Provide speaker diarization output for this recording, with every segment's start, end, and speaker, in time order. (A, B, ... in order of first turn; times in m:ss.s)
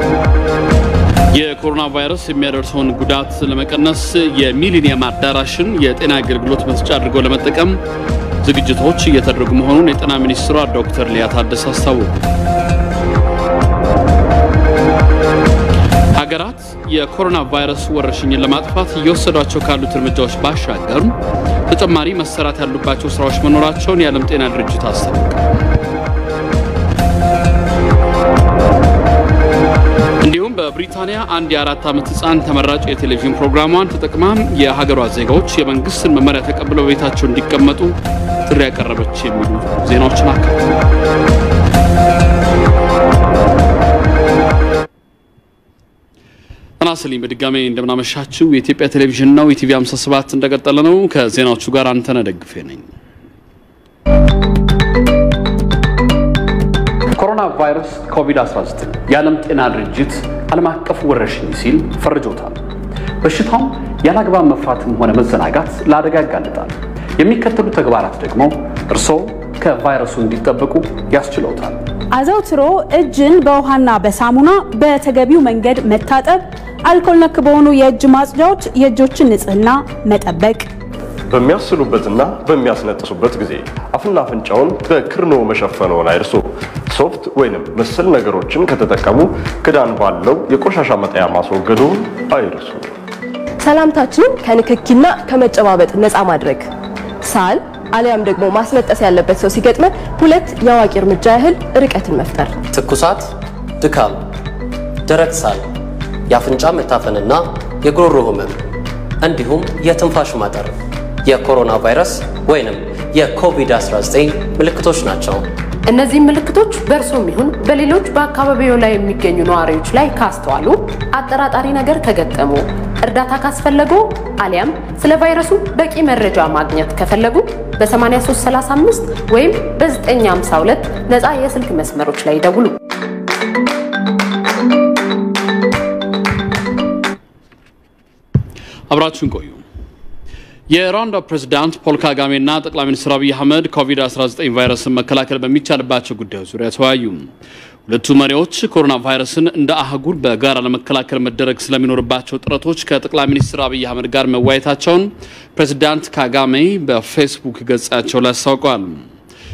0:01.3-0:07.8 A
0:08.4-0:12.2 A
0:16.2-0:21.1 A
0:21.7-0:25.4 A
0:30.2-0:38.0 A
0:38.5-0:40.8 A
0:46.8-0:52.9 A
0:57.2-1:02.6 A
1:03.2-1:11.8 A
1:12.1-1:20.7 B
1:21.3-1:32.9 C
1:33.6-1:36.7 D
1:37.2-1:42.6 D
1:42.7-1:44.2 E
1:45.1-1:45.6 E
1:46.3-1:48.6 E
1:49.2-1:50.7 E
1:51.2-1:55.4 E
1:55.9-2:12.8 F
2:18.9-2:19.6 A
2:20.7-2:27.2 A
2:27.9-2:39.0 A